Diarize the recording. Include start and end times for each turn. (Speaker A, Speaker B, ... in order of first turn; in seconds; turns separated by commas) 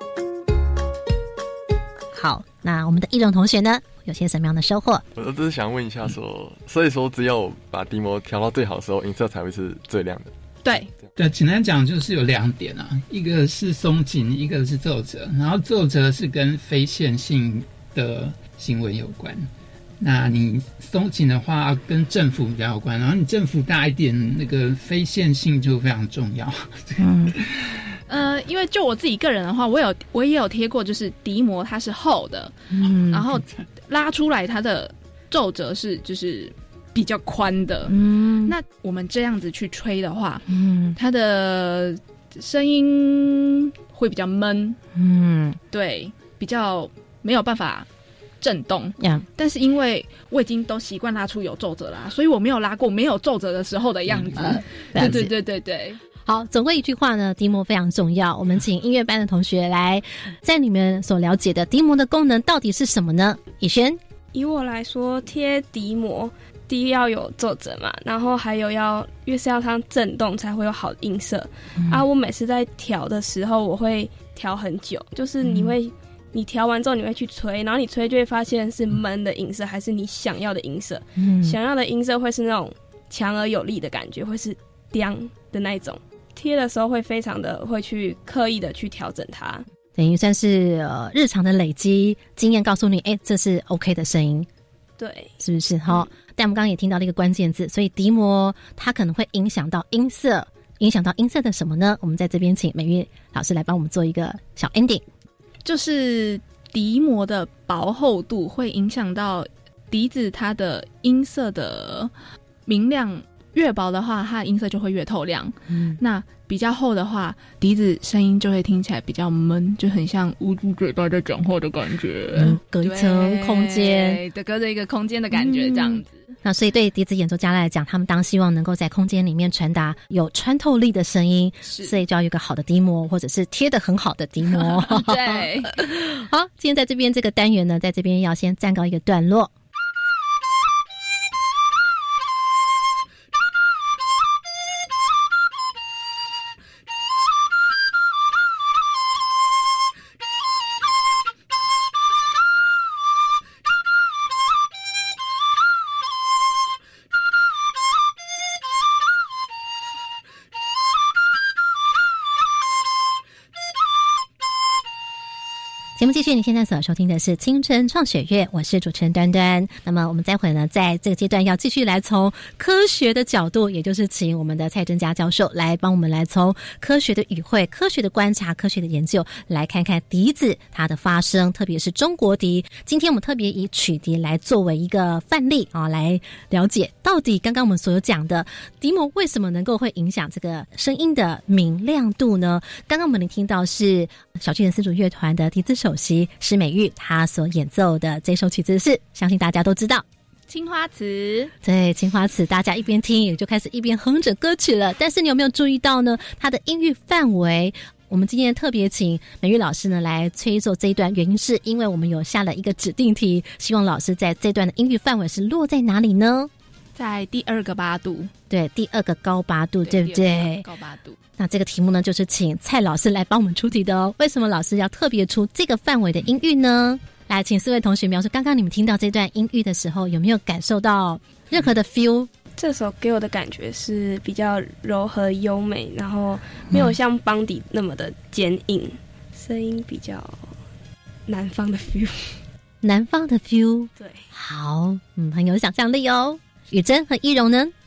Speaker A: 2.1-5.0, Speaker B: 5.1-10.3, Speaker C: 11.2-19.5, Speaker C: 20.0-27.8, Speaker A: 27.0-27.3, Speaker D: 28.1-32.5, Speaker A: 32.8-33.2, Speaker D: 33.1-37.9, Speaker A: 37.9-38.5, Speaker D: 38.5-44.8, Speaker A: 40.5-41.0, Speaker A: 44.9-45.6, Speaker D: 45.7-47.9, Speaker D: 48.4-56.0, Speaker A: 49.0-49.2, Speaker A: 54.4-55.3, Speaker A: 56.2-64.0, Speaker E: 64.3-89.6, Speaker A: 71.8-72.0, Speaker A: 75.4-75.7, Speaker A: 81.2-81.6, Speaker A: 90.0-94.5, Speaker E: 95.0-95.3, Speaker A: 95.4-105.0, Speaker D: 105.6-112.1, Speaker D: 112.7-126.2, Speaker A: 115.7-116.0, Speaker A: 122.3-124.2, Speaker A: 125.3-139.5, Speaker D: 131.7-131.9, Speaker D: 134.5-135.7, Speaker A: 166.0-200.1, Speaker D: 200.5-201.5, Speaker A: 201.6-216.5, Speaker D: 216.9-218.3, Speaker A: 218.5-220.7, Speaker D: 219.8-221.2, Speaker A: 221.4-232.3, Speaker E: 232.6-240.6, Speaker A: 236.7-236.9, Speaker E: 241.3-242.4, Speaker A: 242.8-247.7, Speaker E: 244.0-244.3